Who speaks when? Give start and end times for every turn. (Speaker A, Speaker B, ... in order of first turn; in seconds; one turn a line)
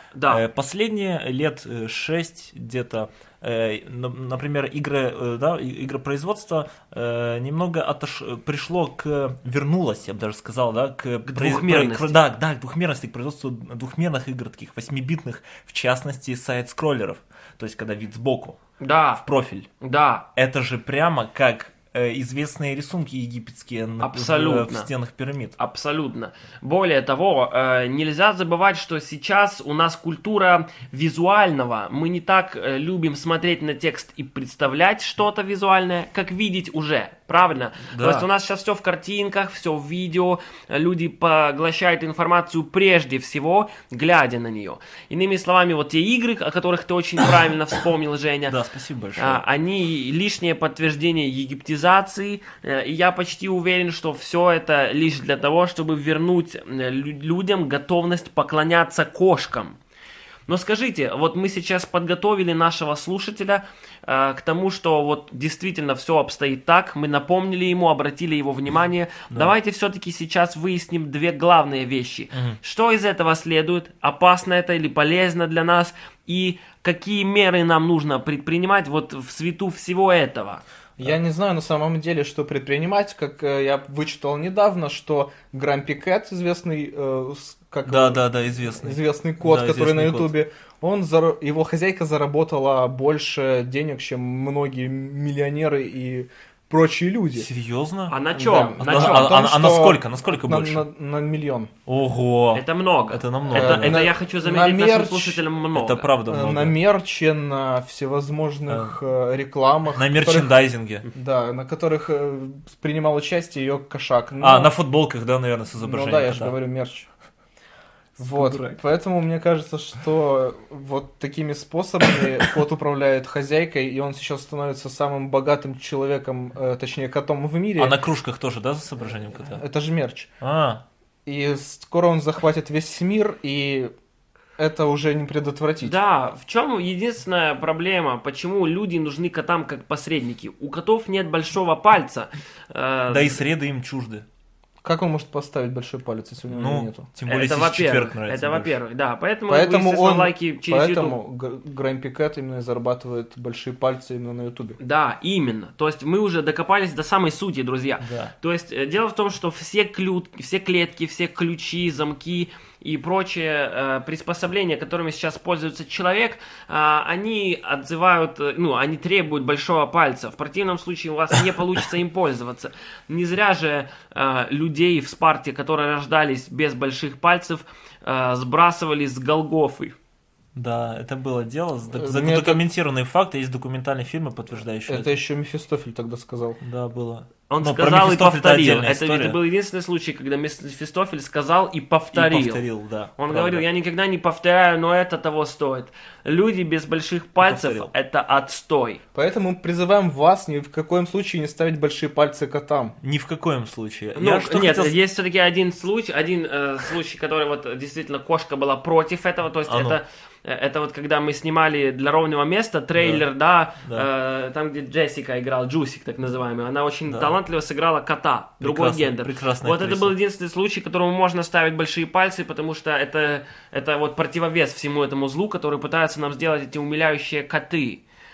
Speaker A: 0.1-0.4
Speaker B: 0.3-18.6
Speaker A: 11.2-12.2
Speaker A: 18.8-19.2
Speaker B: 19.2-19.7
Speaker A: 19.8-20.3
Speaker B: 20.4-25.6
Speaker A: 24.0-24.9
Speaker A: 25.6-48.6
Speaker B: 37.9-38.3
Speaker B: 48.5-49.4
Speaker A: 49.2-59.8
Speaker A: 60.5-80.6
Speaker B: 72.3-72.6
Speaker C: 81.0-97.5
Speaker B: 87.9-90.3
Speaker B: 97.3-98.2
Speaker A: 98.1-99.3
Speaker C: 98.4-101.7
Speaker B: 98.8-100.8
Speaker B: 101.9-104.1
Speaker A: 102.5-106.1
Speaker C: 103.5-105.4
Speaker B: 105.7-106.8
Speaker C: 106.3-110.5
Speaker B: 108.7-109.0
Speaker B: 109.9-111.1
Speaker C: 111.1-114.7
Speaker B: 114.4-116.6
Speaker C: 115.8-117.1
Speaker B: 118.2-118.8
Speaker C: 118.2-128.0
Speaker B: 127.8-129.6
Speaker C: 129.5-130.3
Speaker B: 130.4-130.8
Speaker C: 131.3-133.9
Speaker C: 134.6-136.0
Speaker A: 135.8-143.4
Speaker B: 143.1-144.2
Speaker C: 144.8-147.1
Speaker B: 146.5-148.8
Speaker A: 147.3-151.2
Speaker C: 149.5-154.8
Speaker A: 154.8-180.0
Speaker B: 158.0-158.3
Speaker B: 180.6-185.1
Speaker C: 181.9-182.6
Speaker C: 184.9-186.6
Speaker B: 186.6-189.4
Speaker A: 187.5-192.6
Speaker B: 192.1-193.7
Speaker A: 193.2-199.0
Speaker B: 197.4-197.9
Speaker C: 199.1-202.9
Speaker B: 203.0-204.9
Speaker A: 204.2-228.0
Speaker B: 209.7-210.0
Speaker B: 213.0-213.3
Speaker B: 217.1-217.3
Speaker B: 218.6-220.2